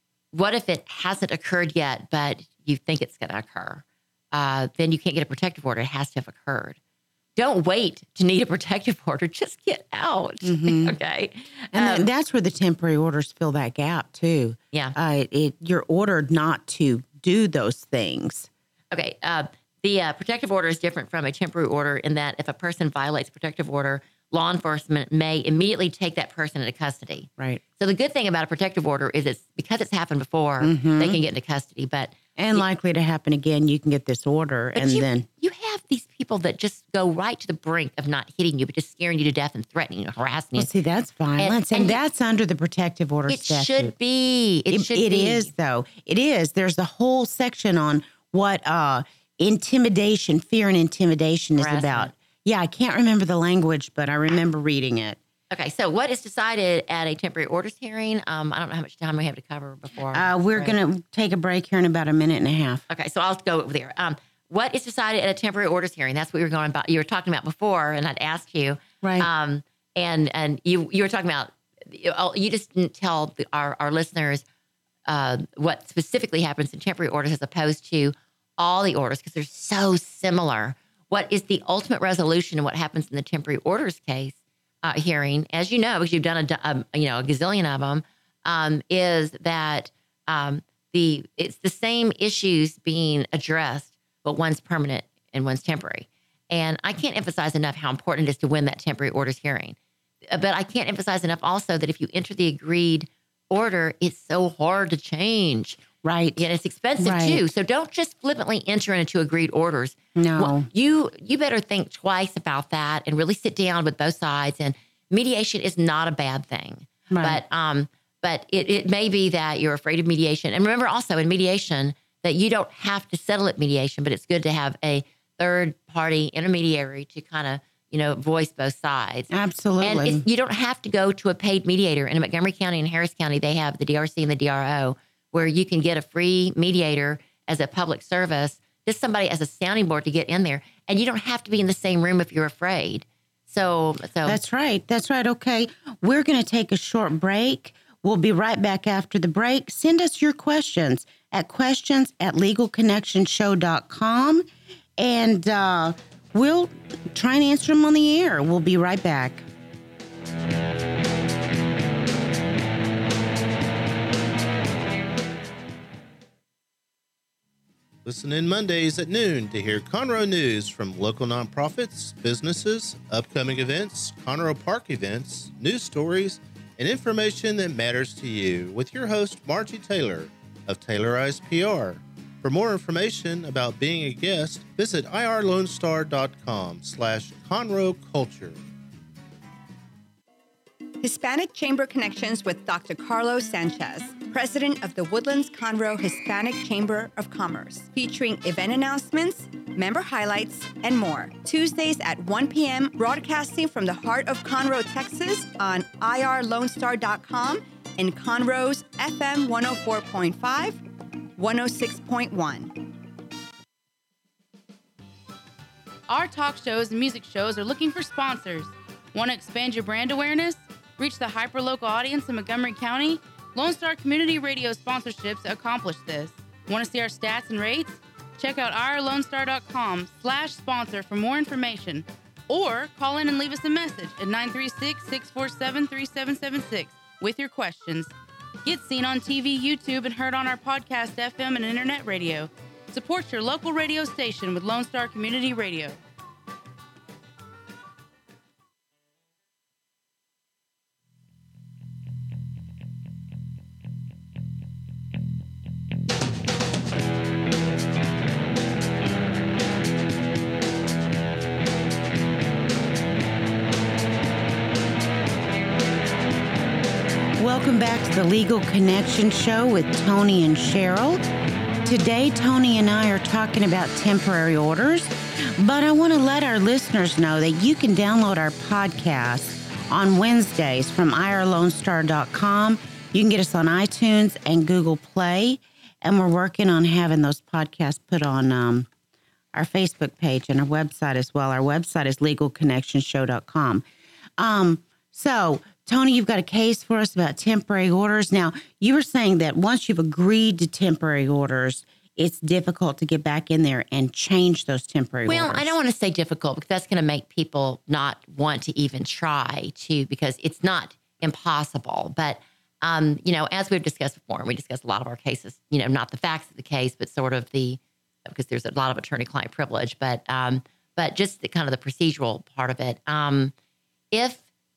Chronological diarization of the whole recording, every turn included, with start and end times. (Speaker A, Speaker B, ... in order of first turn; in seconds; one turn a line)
Speaker A: 0.3-6.8
Speaker A: 7.3-12.1
Speaker B: 10.4-10.9
Speaker B: 11.7-18.5
Speaker A: 18.9-32.7
Speaker B: 30.6-31.2
Speaker B: 32.4-35.3
Speaker A: 34.7-40.7
Speaker B: 40.5-43.9
Speaker A: 41.4-42.0
Speaker A: 43.3-45.5
Speaker B: 44.7-55.2
Speaker A: 51.5-52.1
Speaker A: 55.5-60.8
Speaker B: 60.1-62.8
Speaker A: 62.9-74.4
Speaker B: 69.0-69.3
Speaker A: 75.1-99.8
Speaker A: 100.3-105.8
Speaker B: 106.0-106.4
Speaker A: 106.3-144.4
Speaker B: 107.0-107.4
Speaker B: 110.2-110.7
Speaker B: 117.1-117.4
Speaker B: 129.3-130.2
Speaker B: 144.2-154.4
Speaker B: 155.0-159.4
Speaker C: 168.0-188.6
Speaker D: 191.0-210.8
Speaker D: 211.3-212.8
Speaker E: 216.1-238.1
Speaker E: 238.6-246.0
Speaker B: 267.4-271.2
Speaker B: 271.8-288.9
Speaker B: 289.5-293.9
Speaker B: 294.4-305.7
Speaker A: 305.2-323.5
Speaker A: 324.1-324.4